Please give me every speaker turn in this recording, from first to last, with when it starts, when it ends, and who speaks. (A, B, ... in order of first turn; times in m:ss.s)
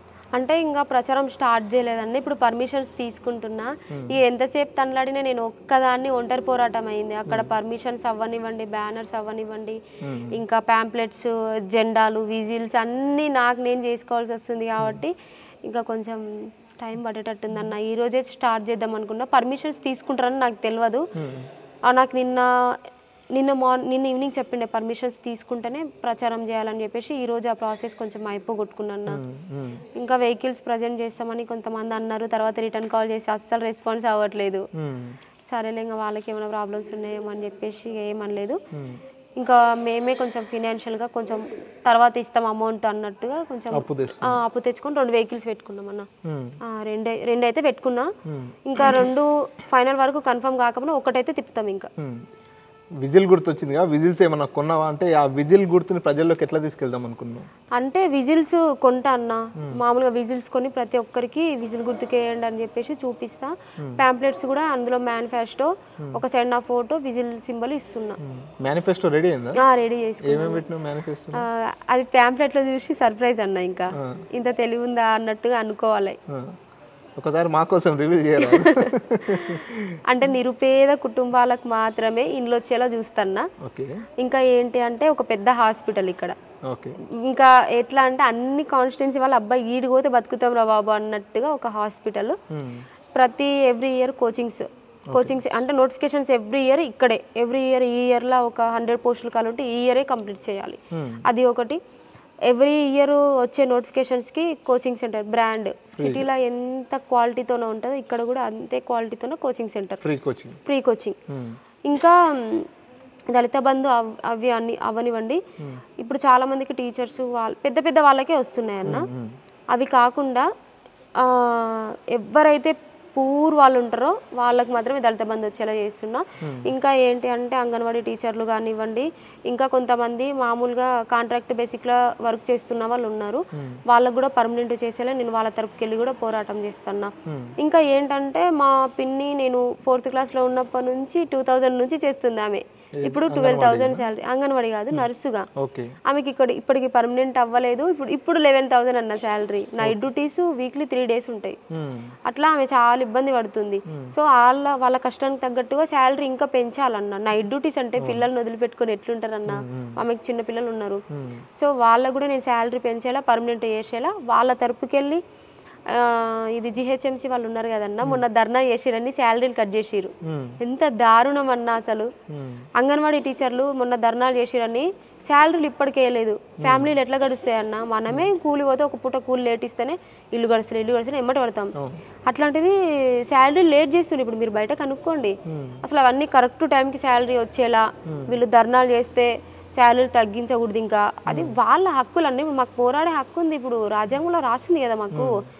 0:00.3-0:09.8 A
0:07.3-0:07.5 B
0:10.0-0:10.4 B
0:10.3-0:15.1 A
0:15.7-0:21.0 A
0:21.2-0:21.5 B
0:21.9-0:22.7 A
0:23.3-0:29.2 A
0:29.1-0:29.8 B
0:30.0-0:34.6 A
0:34.8-0:35.2 B
0:35.5-0:38.6 A
0:38.7-0:39.0 B
0:39.4-0:46.1 A
0:43.7-0:44.4 B
0:46.2-0:46.6 B
0:46.7-0:48.1 A
0:48.2-0:48.6 B
0:48.6-0:51.9 A
0:52.0-0:52.2 B
0:53.0-0:57.5 B
0:57.8-1:08.2 A
1:08.2-1:09.6 B
1:09.6-1:10.6 A
1:10.2-1:11.4 B
1:11.3-1:16.2 A
1:17.2-1:20.0 B
1:18.4-1:23.5 A
1:23.6-1:24.0 B
1:24.2-1:26.3 A
1:26.7-1:26.9 B
1:27.2-1:32.4 A
1:32.5-1:32.8 B
1:33.1-1:41.8 A
1:35.1-1:35.4 B
1:40.9-1:41.2 B
1:42.5-1:50.0 A
1:46.0-1:46.3 B
1:50.0-1:50.6 B
1:50.6-1:51.2 A
1:51.3-1:51.6 B
1:51.9-1:52.7 A
1:53.3-1:55.4 A
1:56.0-1:59.1 A
1:58.8-1:59.3 B
1:59.7-2:00.5 A
2:01.2-2:25.5 A
2:06.4-2:06.7 B
2:13.5-2:13.8 B
2:17.2-2:17.5 B
2:23.0-2:24.0 B
2:24.9-2:25.9 B
2:26.1-2:31.6 A
2:29.8-2:30.1 B
2:31.7-2:32.1 B
2:32.3-2:41.0 A
2:33.9-2:34.1 B
2:38.0-2:38.2 B
2:39.4-2:40.0 B
2:41.1-2:41.4 B
2:41.6-2:45.2 A
2:45.9-2:52.1 A
2:50.2-2:50.6 B
2:52.3-2:52.6 B
2:52.8-3:01.7 A
2:56.6-2:56.9 B
3:02.3-3:02.7 A
3:03.3-3:15.3 A
3:05.4-3:05.8 B
3:08.0-3:08.4 B
3:11.3-3:11.6 B
3:15.1-3:15.4 B